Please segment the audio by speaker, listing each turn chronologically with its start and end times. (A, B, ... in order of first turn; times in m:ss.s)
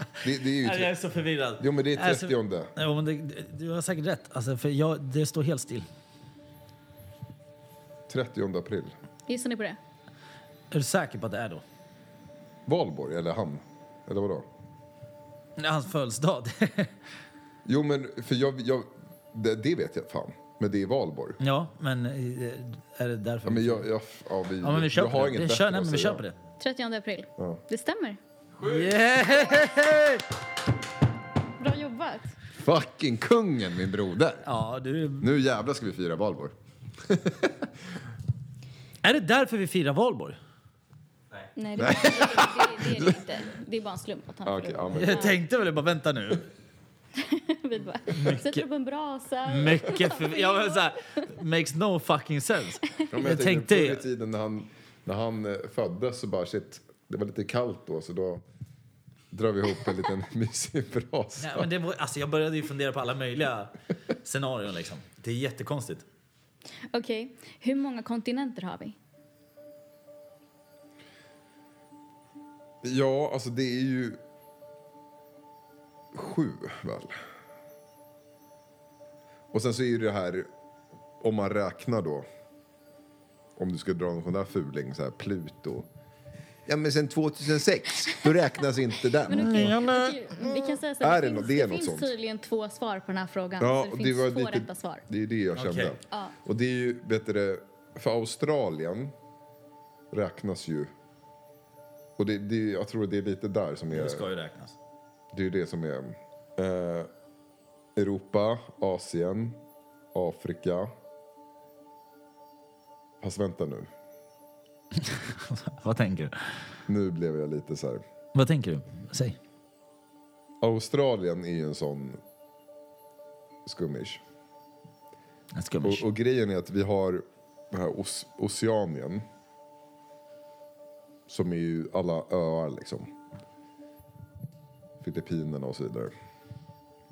0:00.2-0:01.0 A
0:00.6-0:05.9 B
0:01.6-0:02.7 A
0:08.1-0:08.9 A
0:09.3-0:09.8 C
0:10.7-0:11.6 B
0:12.7-0:14.5 A
0:15.6-0:16.9 B
0:17.6-0:21.4 A
0:21.4-0:23.8 B
0:23.4-0:26.2 A
0:24.6-0:26.4 B
0:26.6-0:28.2 C
0:28.6-0:30.2 B
0:31.6-0:32.4 C
0:32.5-0:34.5 A
0:34.4-0:35.3 B
0:35.2-0:37.7 A
0:39.0-0:40.4 B
0:41.6-0:45.4 C
0:41.8-0:42.8 B
0:41.8-0:43.1 A
0:44.4-0:45.4 A
0:44.9-0:46.5 B
0:47.2-0:51.2 C
0:48.1-0:48.6 B
0:49.5-0:54.0 B
0:53.1-0:58.4 A
0:59.3-1:01.7 A
1:01.4-1:06.1 B
1:06.9-1:09.0 C
1:12.8-1:14.2 A
1:16.1-1:17.2 A
1:19.5-1:20.5 A
1:21.2-1:22.3 A
1:23.6-1:25.9 A
1:26.7-1:32.1 A
1:29.3-1:35.0 C
1:29.4-1:30.1 B
1:33.6-1:39.1 A
1:35.6-1:36.0 B
1:40.1-1:40.9 A
1:42.2-1:44.2 A
1:43.9-1:44.8 B
1:45.3-1:47.1 A
1:48.0-1:49.6 A
1:50.1-1:50.9 A
1:53.2-1:53.9 A
1:55.0-1:56.7 B
1:56.9-1:58.0 A
1:58.3-1:59.4 B
2:00.6-2:02.2 A
2:03.7-2:04.2 A
2:05.5-2:06.0 B
2:05.8-2:09.2 A
2:11.3-2:13.1 A
2:15.0-2:16.1 A